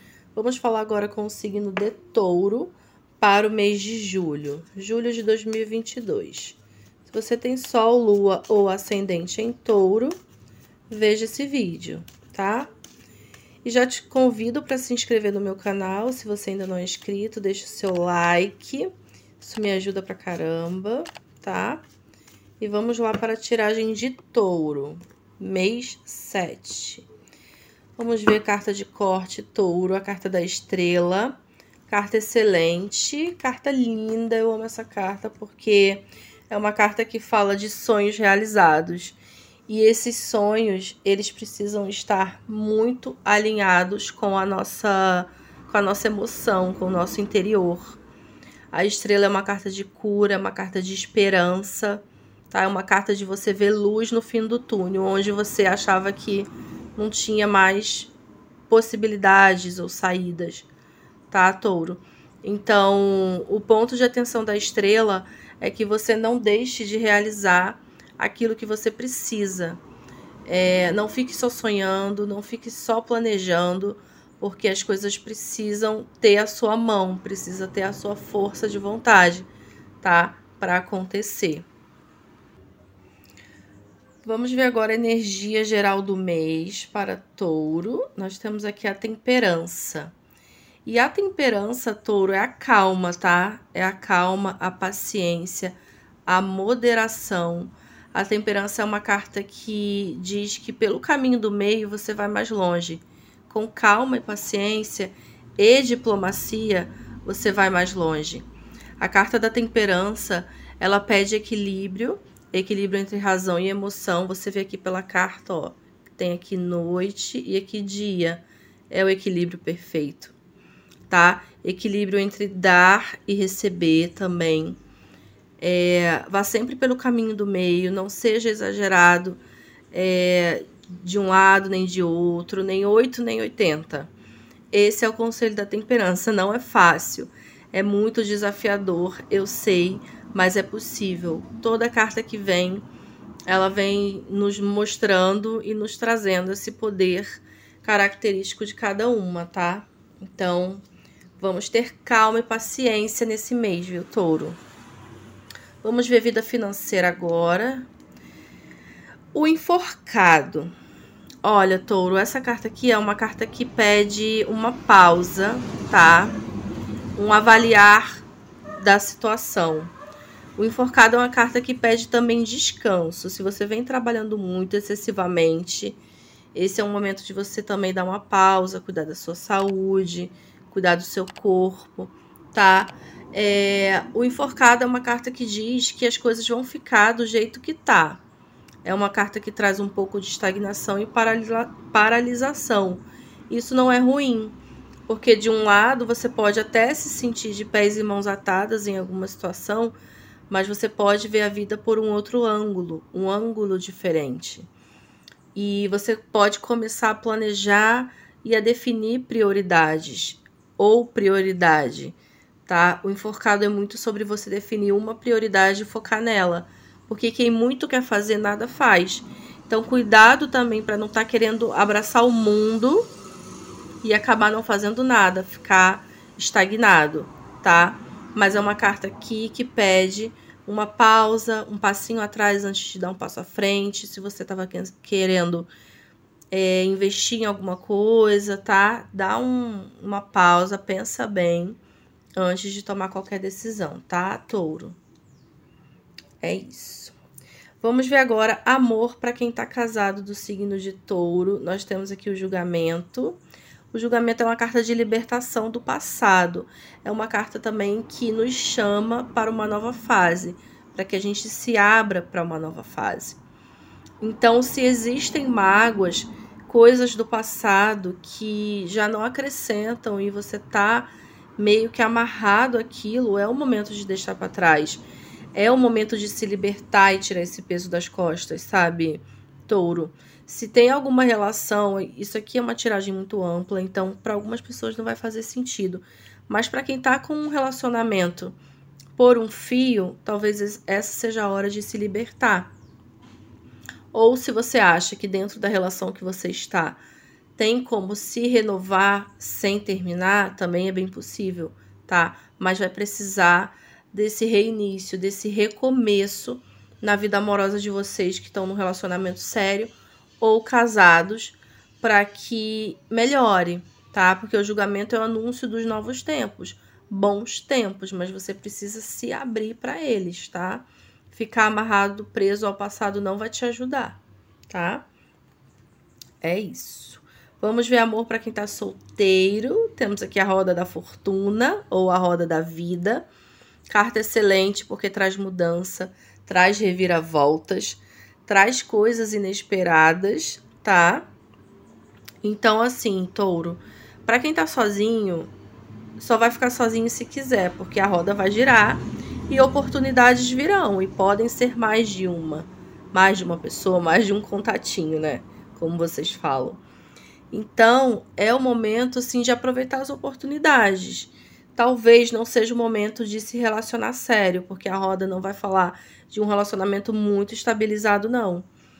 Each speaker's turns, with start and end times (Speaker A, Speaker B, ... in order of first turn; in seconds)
Speaker A: 0.3-10.2, 10.9-12.7, 13.6-21.8, 22.6-27.1, 28.0-48.0, 48.7-58.1, 58.7-60.7, 61.3-69.8, 70.5-79.5, 80.0-81.7, 84.2-90.1, 90.8-108.5, 109.0-120.3, 121.1-124.8, 125.6-129.4, 129.9-134.1, 134.7-142.8, 143.5-150.8, 151.4-154.6, 155.8-157.9, 159.3-160.7, 161.4-166.4, 167.1-168.2, 168.8-169.9, 170.6-176.0, 176.5-188.2, 188.8-194.6, 195.1-199.9, 200.5-204.7, 205.5-223.1, 224.0-235.7, 236.5-241.8, 242.3-245.0, 246.4-247.2, 247.8-253.4, 253.9-263.4, 264.2-288.5, 289.1-292.7, 294.1-297.0, 297.6-325.1, 326.4-333.2, 333.9-341.3, 342.4-345.5, 346.2-356.8, 357.5-368.7